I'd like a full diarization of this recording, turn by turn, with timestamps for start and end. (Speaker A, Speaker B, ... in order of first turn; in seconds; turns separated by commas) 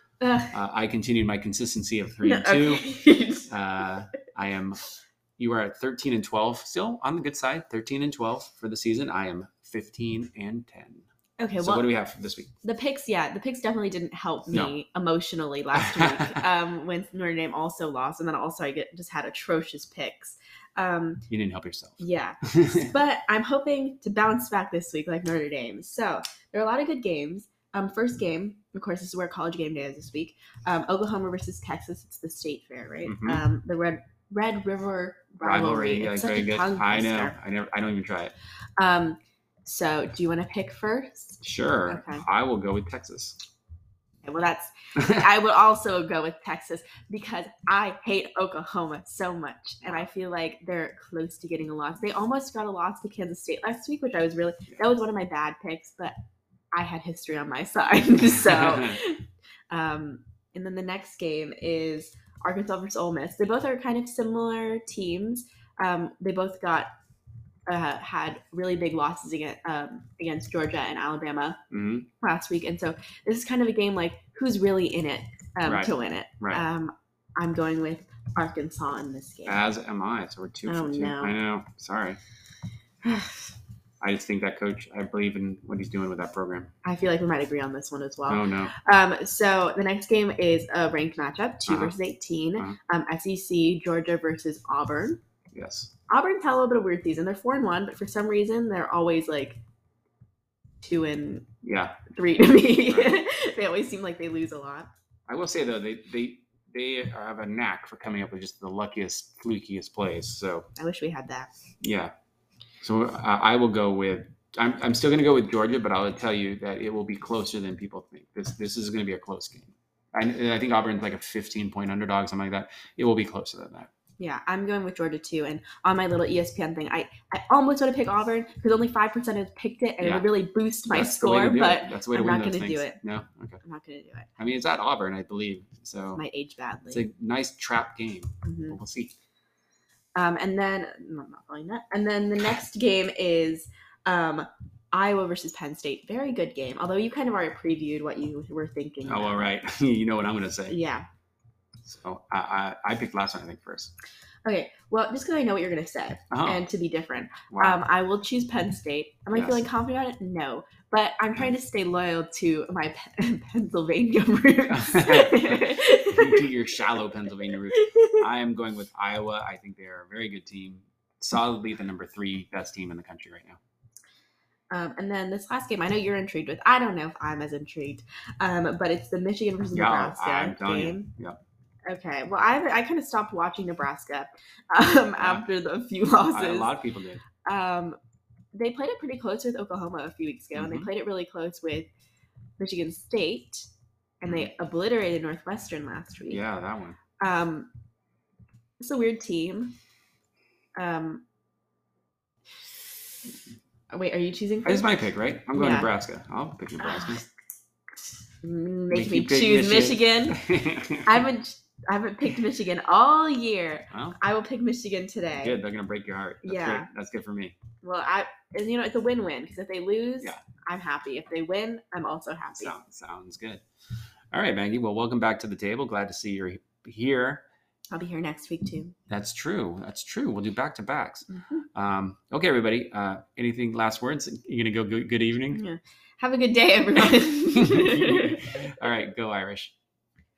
Speaker A: 0.2-0.5, Speaker B: 0.5-2.9, Speaker A: 2.2-3.5, Speaker B: 3.5-4.8, Speaker B: 5.4-11.1, Speaker A: 11.4-11.9, Speaker B: 11.6-12.5, Speaker A: 12.6-21.2, Speaker B: 15.7-16.4, Speaker B: 21.3-22.9, Speaker A: 22.0-37.4, Speaker B: 33.0-33.4, Speaker B: 35.4-38.3, Speaker A: 38.8-42.2, Speaker B: 41.4-43.4, Speaker A: 44.2-56.1, Speaker B: 45.0-45.2, Speaker A: 56.7-66.9, Speaker B: 58.4-59.0, Speaker A: 67.7-71.6, Speaker B: 71.7-72.1, Speaker A: 72.2-79.6, Speaker B: 75.6-76.6, Speaker B: 79.5-82.2, Speaker A: 80.7-81.3, Speaker A: 83.0-83.4, Speaker B: 84.0-86.7, Speaker A: 86.8-95.2, Speaker B: 88.3-88.7, Speaker B: 91.7-91.9, Speaker B: 95.5-95.9, Speaker A: 96.1-99.6, Speaker A: 100.8-101.5, Speaker B: 101.6-102.0, Speaker A: 102.1-104.9, Speaker B: 102.9-103.1, Speaker B: 105.3-110.7, Speaker A: 110.8-111.5, Speaker B: 111.8-112.1, Speaker B: 112.8-123.9, Speaker A: 124.2-133.0, Speaker B: 130.0-130.2, Speaker B: 130.9-133.6, Speaker A: 133.6-134.3, Speaker B: 134.4-136.2, Speaker A: 136.2-137.1, Speaker B: 136.9-139.1, Speaker A: 138.4-138.8, Speaker A: 140.2-149.5, Speaker B: 149.0-150.8, Speaker A: 150.7-151.1, Speaker B: 151.8-153.9, Speaker A: 154.4-166.5, Speaker B: 156.3-156.6, Speaker B: 157.5-157.8, Speaker B: 159.3-159.6, Speaker B: 164.7-173.6, Speaker A: 167.7-168.2, Speaker A: 174.7-181.1, Speaker B: 179.7-181.4, Speaker A: 181.9-186.7, Speaker B: 185.2-185.4, Speaker B: 186.3-187.2, Speaker A: 187.4-188.0, Speaker A: 188.5-191.9, Speaker B: 190.5-190.9, Speaker A: 192.6-193.7, Speaker A: 194.2-196.4, Speaker B: 196.3-197.0, Speaker A: 197.2-197.7, Speaker A: 198.8-199.8, Speaker A: 200.8-201.2, Speaker A: 203.9-204.9, Speaker B: 204.6-207.2, Speaker A: 205.5-205.9, Speaker A: 206.8-207.2, Speaker A: 208.4-210.4, Speaker B: 208.9-211.2, Speaker A: 211.0-215.6, Speaker B: 213.9-214.2, Speaker B: 215.4-217.6, Speaker A: 216.4-216.9, Speaker A: 217.8-222.7, Speaker B: 222.6-223.6, Speaker B: 224.3-227.4, Speaker A: 227.9-228.9, Speaker B: 229.1-235.6, Speaker A: 231.3-231.6, Speaker A: 235.5-238.4, Speaker B: 237.5-239.7